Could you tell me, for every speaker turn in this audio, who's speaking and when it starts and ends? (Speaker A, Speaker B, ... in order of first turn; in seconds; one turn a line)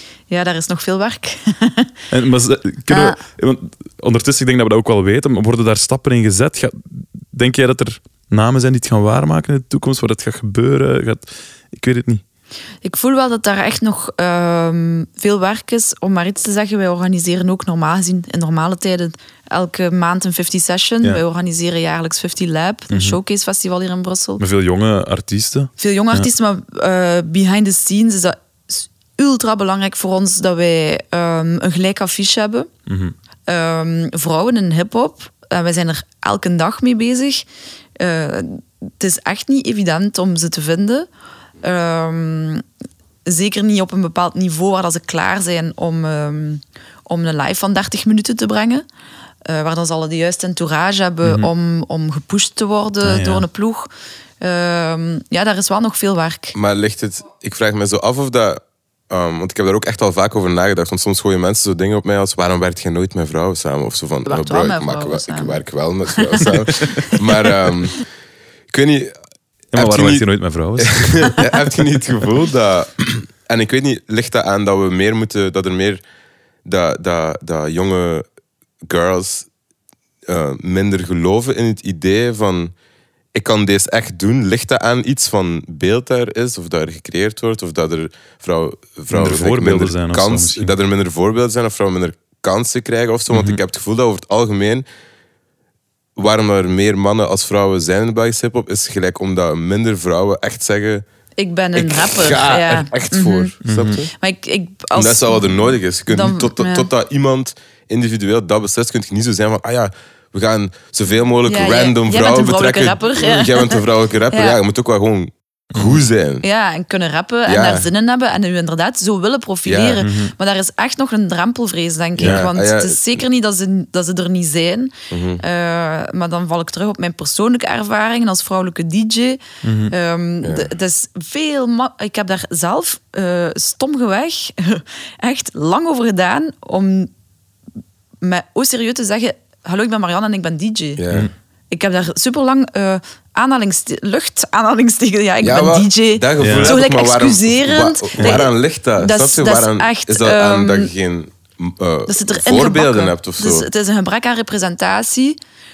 Speaker A: 0.3-1.9
Speaker B: 2.1-12.2
Speaker A: 2.9-3.2
Speaker A: 12.8-24.4
Speaker B: 22.9-23.2
Speaker B: 24.4-26.3
Speaker A: 25.8-32.7
Speaker B: 32.9-33.1
Speaker A: 33.5-37.5
Speaker A: 38.0-41.1
Speaker A: 41.6-42.6
Speaker A: 43.3-48.8
Speaker A: 49.5-56.5
Speaker B: 51.2-51.5
Speaker B: 53.0-53.5
Speaker C: 56.5-68.0
Speaker A: 64.3-66.7
Speaker C: 68.7-69.2
Speaker B: 69.7-71.3
Speaker C: 69.7-70.3
Speaker C: 70.8-76.0
Speaker C: 76.6-78.2
Speaker C: 78.8-79.5
Speaker C: 80.3-82.7
Speaker C: 83.3-94.9
Speaker B: 89.1-90.7
Speaker B: 93.3-93.6
Speaker C: 96.2-101.0
Speaker A: 101.4-103.5
Speaker C: 101.7-104.1
Speaker B: 103.6-104.0
Speaker A: 104.1-106.9
Speaker C: 105.0-116.4
Speaker A: 111.5-114.6
Speaker B: 115.7-116.0
Speaker A: 116.4-137.1
Speaker C: 117.5-117.9
Speaker C: 119.6-120.0
Speaker B: 120.0-120.3
Speaker C: 122.2-123.1
Speaker B: 122.2-122.4
Speaker C: 125.1-125.4
Speaker B: 129.6-129.9
Speaker A: 138.2-141.0
Speaker C: 141.0-141.3
Speaker A: 141.7-150.9
Speaker C: 145.4-153.7
Speaker B: 146.4-146.7
Speaker A: 152.1-155.4